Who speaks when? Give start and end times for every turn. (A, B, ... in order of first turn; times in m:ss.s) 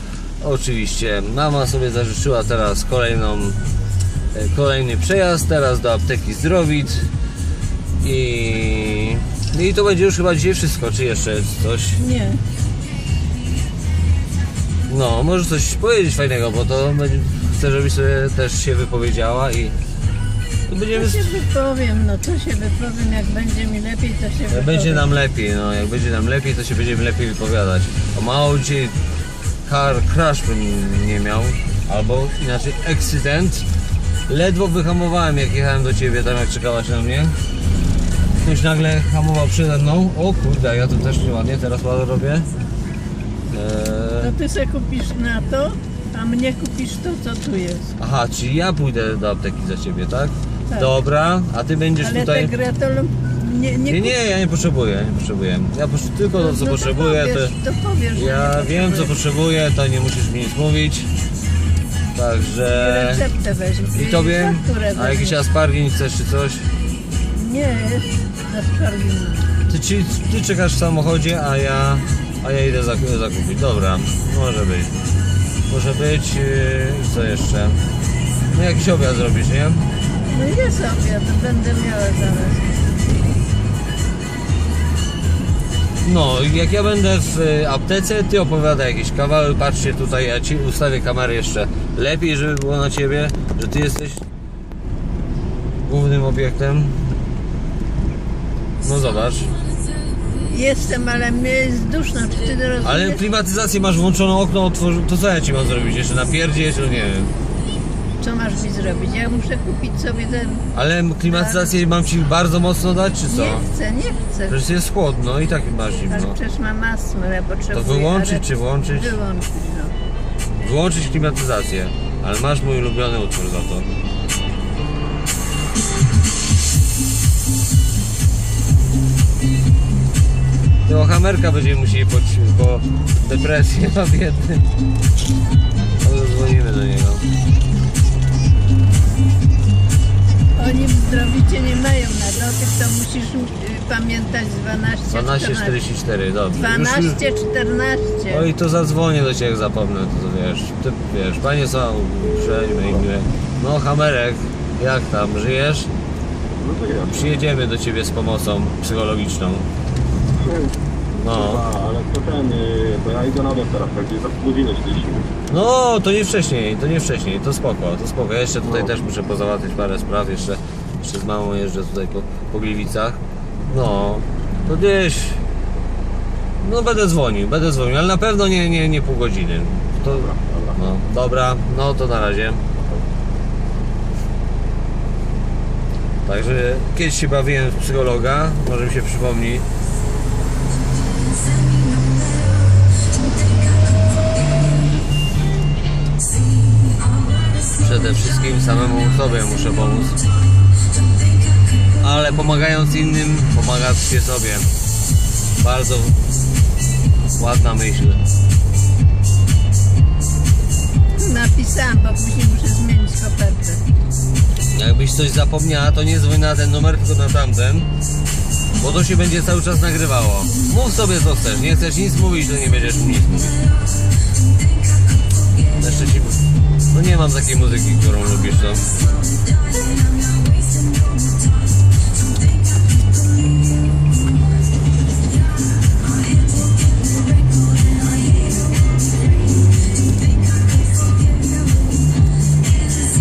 0:00.4-0:03.6 A
0:04.3-0:07.1 A
0:08.0-0:12.0 A
0:12.0-0:12.4 B
0:14.9-0:19.8 A
0:20.7-0:21.3 A
0:21.0-0:25.1 B
0:24.5-0:29.0 A
0:29.6-0:33.7 A
0:34.3-0:37.4 A
0:38.4-0:42.5 A
0:43.5-0:44.3 A
0:44.2-0:48.0 B
0:48.0-0:52.5 A
0:50.7-0:51.0 B
0:52.0-0:54.2 B
0:53.9-0:57.5 A
0:56.3-0:59.1 B
0:58.2-1:01.1 A
1:02.1-1:03.2 A
1:02.7-1:05.4 B
1:03.9-1:06.7 A
1:07.3-1:09.5 B
1:09.7-1:14.9 A
1:15.7-1:17.8 A
1:18.5-1:19.9 A
1:20.3-1:22.9 B
1:26.0-1:34.2 A
1:35.8-1:37.0 A
1:38.8-1:39.5 A
1:40.5-1:43.2 B
1:42.8-1:47.3 A
1:48.2-1:50.7 B
1:50.7-1:53.6 A
1:51.2-1:51.8 B
1:53.3-1:54.6 B
1:54.5-1:56.4 A
1:56.1-2:00.0 B
1:57.7-1:59.2 A
2:00.6-2:03.9 A
2:10.9-2:14.6 A
2:16.0-2:17.2 A
2:20.6-2:25.8 B
2:25.1-2:27.2 A
2:26.5-2:28.5 B
2:28.3-2:35.9 A
2:36.6-2:37.4 C
2:37.1-2:39.7 A
2:40.3-2:45.3 C
2:41.2-2:41.6 A
2:45.5-2:55.4 A
2:48.6-2:49.0 C
2:56.6-3:02.6 A
3:00.1-3:00.8 C
3:06.3-3:09.7 A
3:17.8-3:20.2 A
3:22.0-3:24.7 A
3:25.6-3:26.2 A
3:27.4-3:28.2 A
3:31.2-3:33.8 B
3:34.7-3:37.9 A
3:38.8-3:43.6 A
3:45.8-3:46.4 A
3:46.9-3:48.9 A